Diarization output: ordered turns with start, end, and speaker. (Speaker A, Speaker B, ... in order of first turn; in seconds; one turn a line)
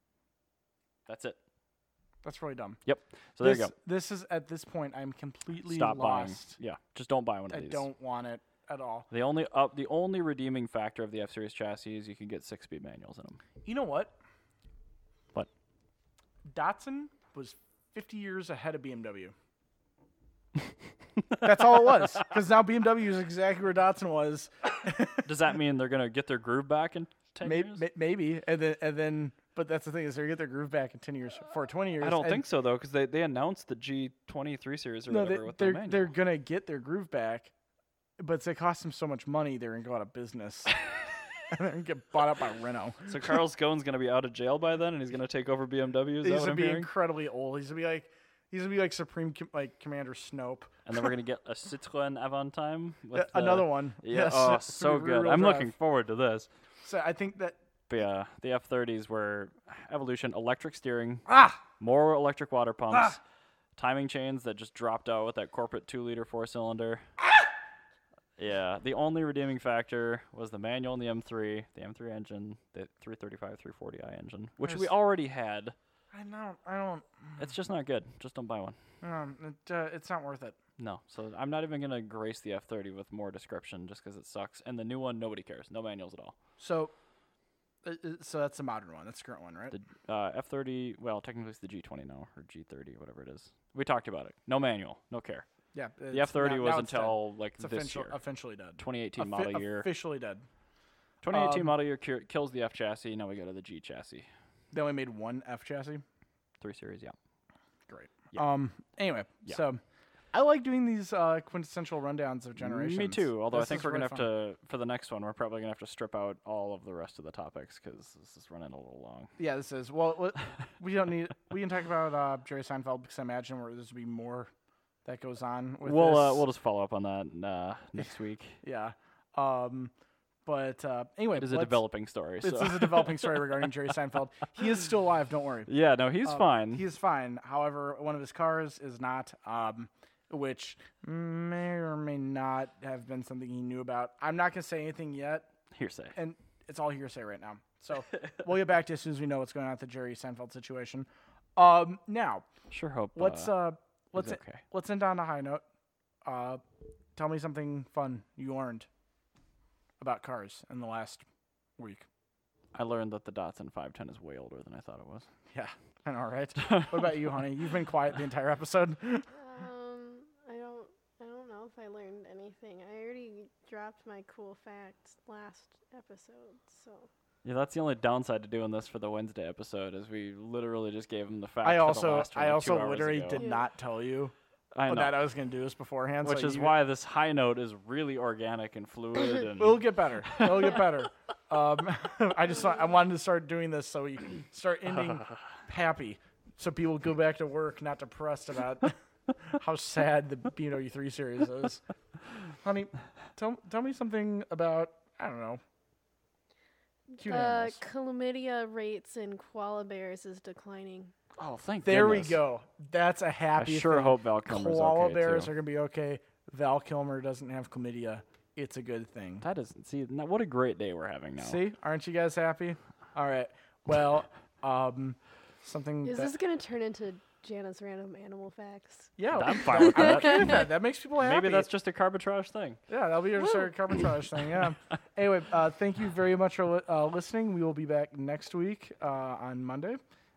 Speaker A: 1.1-1.4
Speaker B: 2.2-2.8
Speaker A: 2.9-3.7
Speaker B: 3.4-6.6
Speaker A: 5.6-7.9
Speaker B: 7.5-9.1
Speaker A: 9.1-13.4
Speaker B: 13.6-14.2
Speaker B: 16.5-19.3
Speaker B: 21.4-25.3
Speaker A: 25.2-27.9
Speaker B: 27.4-32.4
Speaker A: 32.0-36.1
Speaker B: 35.1-37.5
Speaker B: 38.2-40.8
Speaker B: 41.5-43.3
Speaker A: 43.0-46.9
Speaker B: 46.2-50.8
Speaker A: 50.9-56.5
Speaker B: 53.1-55.7
Speaker B: 56.8-57.6
Speaker A: 57.9-63.2
Speaker B: 61.3-61.6
Speaker A: 63.8-67.1
Speaker A: 68.4-75.7
Speaker B: 74.6-74.9
Speaker B: 76.1-77.5
Speaker A: 77.4-78.8
Speaker B: 79.0-80.5
Speaker A: 80.8-86.3
Speaker B: 86.6-86.9
Speaker B: 87.8-89.7
Speaker A: 89.7-95.5
Speaker B: 95.7-100.4
Speaker A: 96.1-98.2
Speaker A: 98.8-99.9
Speaker A: 101.2-104.3
Speaker B: 101.3-101.7
Speaker B: 104.7-106.0
Speaker A: 106.6-107.2
Speaker B: 107.9-109.8
Speaker B: 110.3-114.3
Speaker A: 112.6-119.3
Speaker B: 119.4-124.5
Speaker B: 125.0-126.4
Speaker A: 125.8-128.6
Speaker B: 128.6-129.9
Speaker B: 130.4-131.8
Speaker A: 131.3-133.4
Speaker B: 132.4-135.7
Speaker A: 135.7-136.8
Speaker B: 136.2-145.5
Speaker A: 145.7-146.2
Speaker B: 146.1-152.4
Speaker A: 152.7-153.6
Speaker B: 153.1-155.6
Speaker A: 154.2-154.6
Speaker B: 156.2-156.6
Speaker B: 157.1-158.9
Speaker B: 160.0-161.2
Speaker B: 161.8-162.1
Speaker A: 162.7-165.3
Speaker B: 165.5-169.3
Speaker A: 166.6-166.9
Speaker C: 169.3-177.1
Speaker A: 177.4-183.4
Speaker B: 181.6-184.3
Speaker C: 183.3-183.7
Speaker A: 184.7-185.2
Speaker B: 184.9-186.7
Speaker A: 186.2-190.7
Speaker B: 189.3-201.8
Speaker B: 202.5-205.6
Speaker C: 207.1-211.1
Speaker B: 207.2-207.8
Speaker A: 211.4-212.4
Speaker B: 211.8-219.4
Speaker A: 213.6-215.5
Speaker A: 219.4-221.6
Speaker B: 221.4-226.3
Speaker C: 226.0-229.1
Speaker B: 229.2-231.7
Speaker A: 229.3-232.8
Speaker C: 229.7-230.5
Speaker B: 232.9-240.0